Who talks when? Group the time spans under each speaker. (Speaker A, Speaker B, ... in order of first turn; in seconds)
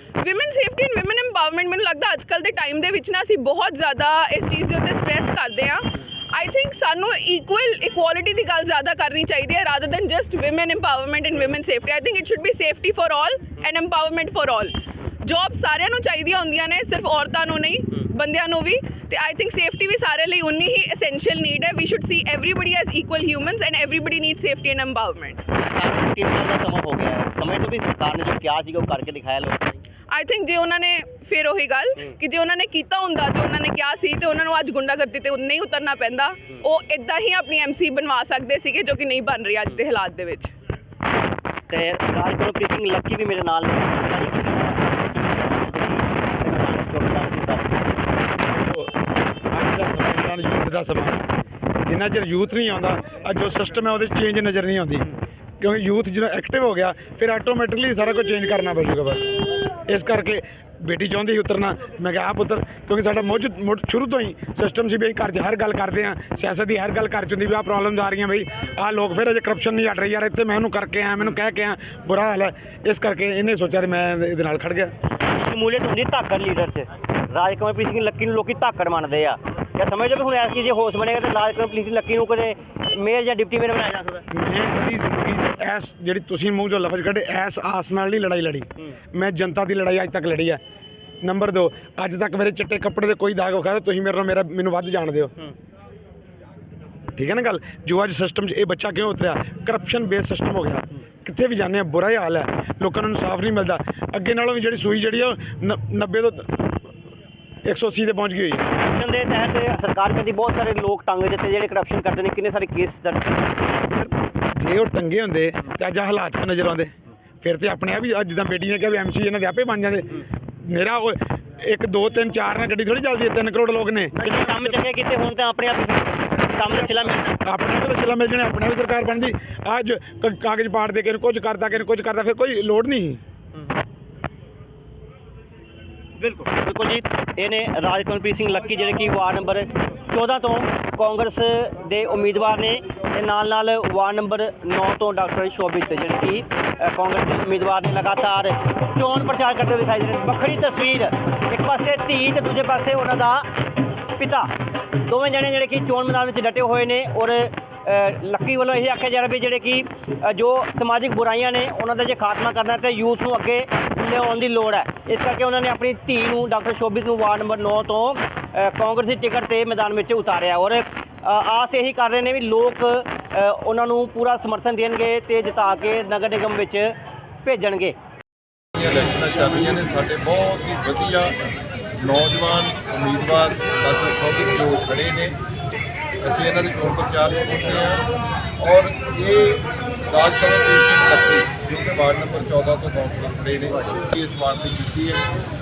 Speaker A: 0.2-25.5, 30.1-40.5
Speaker B: 25.5-29.8, 41.7-48.0, 75.3-84.3, 108.7-113.4, 124.2-127.4, 136.2-153.5, 154.2-176.9, 177.4-177.9
Speaker C: 48.5-48.9, 49.5-51.2, 51.9-55.0, 55.6-74.9, 84.3-90.6, 91.2-95.3, 97.2-106.6, 107.7-108.7, 113.8-124.8, 127.4-133.2
Speaker D: 178.8-181.4, 182.0-185.4, 186.2-188.1, 188.6-195.2